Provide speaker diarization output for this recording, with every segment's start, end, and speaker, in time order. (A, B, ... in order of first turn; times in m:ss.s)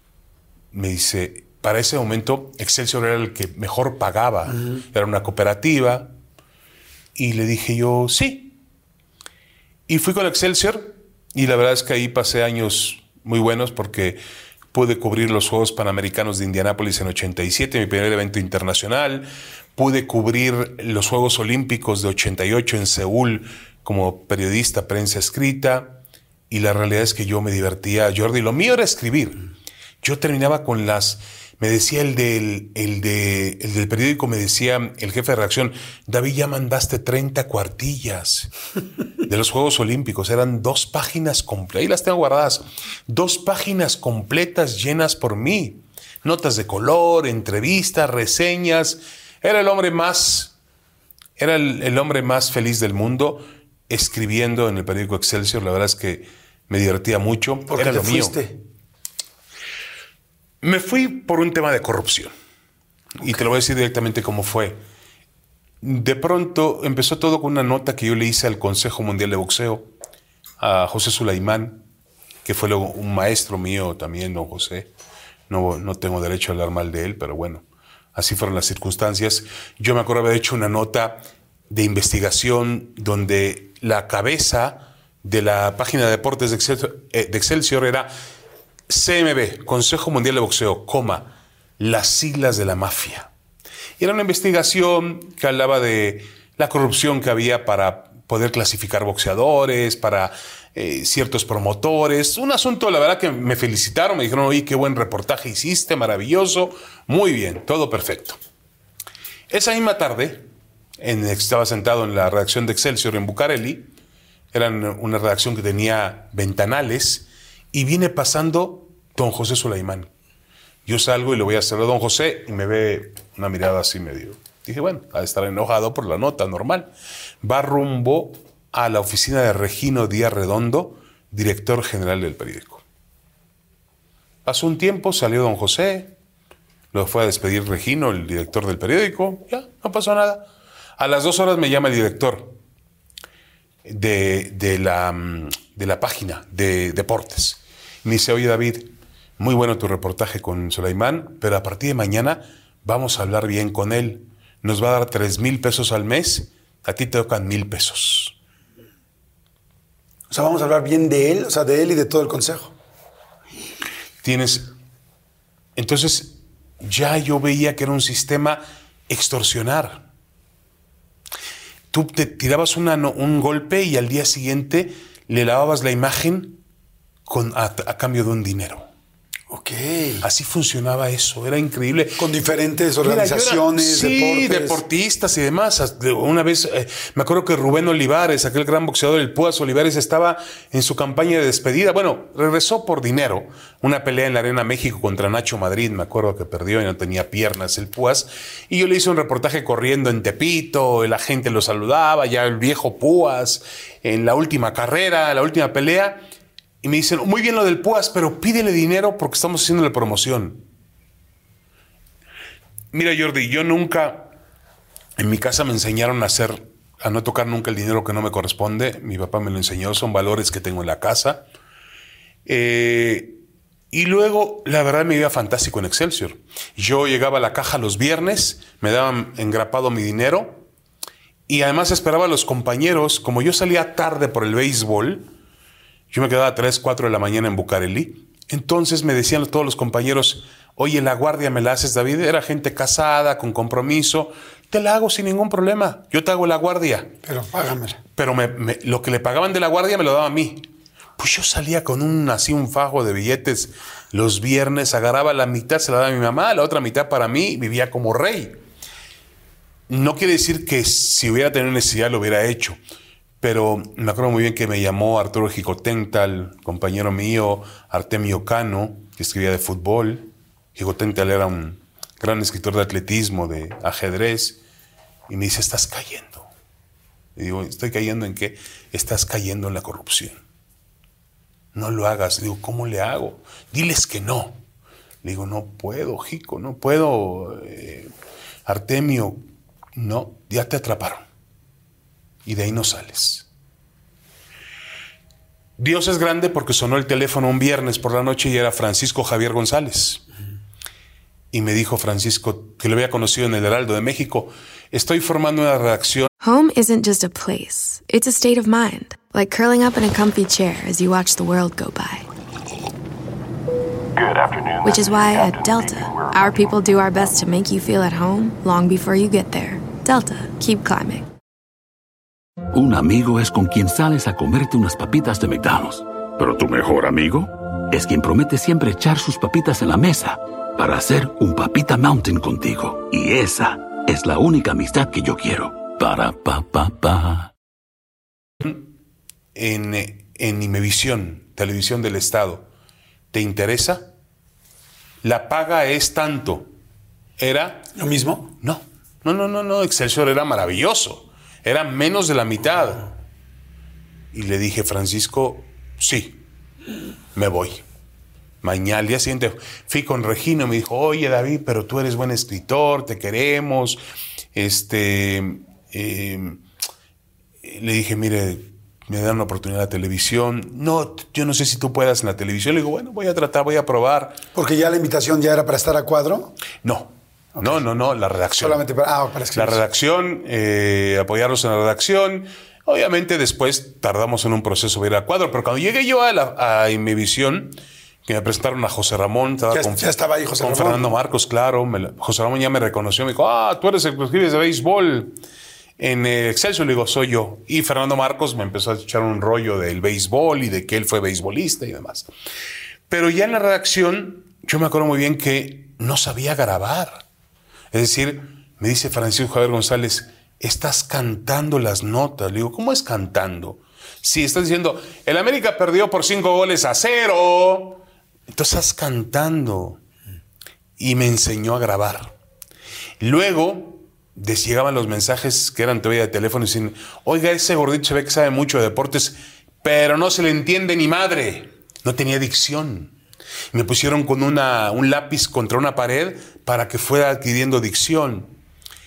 0:00.7-0:06.1 A
0:04.5-0:04.8 B
0:07.2-0:08.6 A
0:09.9-0:14.2 A
0:14.7-0:26.0 A
0:26.5-0:29.4 A
0:30.0-0:38.5 A
0:39.2-0:50.5 A
0:51.4-0:58.4 A
0:57.7-0:58.6 B
1:00.6-1:02.3 A
1:03.2-1:04.8 A
1:05.8-1:09.9 A
1:10.6-1:11.8 A
1:12.4-1:14.9 A
1:15.5-1:17.6 A
1:18.2-1:28.1 A
1:28.9-1:33.3 A
1:34.0-1:48.4 A
1:49.5-1:50.5 A
1:51.0-1:53.9 A
1:54.5-2:00.1 A
2:00.8-2:06.9 A
2:07.4-2:12.8 A
2:14.4-2:16.1 A
2:16.9-2:20.5 A
2:21.0-2:22.6 A
2:23.8-2:38.4 A
2:40.3-2:42.8 B
2:44.2-2:44.7 A
2:45.8-2:50.0 A
2:51.9-2:56.6 A
2:57.3-2:58.9 A
2:59.5-3:00.3 B
3:00.2-3:02.3 A
3:02.2-3:04.8 B
3:03.0-3:26.2 A
3:26.8-3:30.6 A
3:32.9-3:34.3 A
3:35.2-3:41.4 A
3:42.5-3:43.4 A
3:43.9-3:50.6 A
3:51.5-3:55.3 A
3:56.1-4:07.1 A
4:07.2-4:08.0 B
4:08.2-4:18.6 A
4:19.9-4:22.8 A
4:23.4-4:34.6 A
4:35.3-4:36.5 A
4:37.4-4:40.4 A
4:41.7-4:44.6 A
4:45.2-4:48.1 A
4:48.7-4:49.4 A
4:50.0-4:51.3 A
4:52.4-4:53.5 A
4:55.8-5:00.2 A
5:01.5-5:06.3 A
5:06.4-5:12.3 C
5:14.2-5:16.5 D
5:14.8-5:21.3 C
5:22.7-5:37.5 E
5:39.6-5:42.7 A
5:43.3-5:44.1 A
5:45.2-5:46.7 A
5:47.4-5:47.9 A
5:48.0-5:48.5 B
5:48.6-5:53.1 A
5:54.3-5:56.4 A
5:57.4-5:57.8 A
5:58.6-6:04.0 A
6:04.6-6:06.6 A
6:07.6-6:14.4 A
6:14.6-6:16.6 B
6:16.8-6:18.8 A
6:17.6-6:17.8 B
6:18.6-6:19.8 B
6:19.5-6:35.4 A
6:29.7-6:31.2 B
6:36.0-6:42.3 A
6:43.1-6:47.2 A
6:47.9-7:00.0 A
7:01.0-7:02.3 A
7:03.2-7:13.1 A
7:13.7-7:18.5 A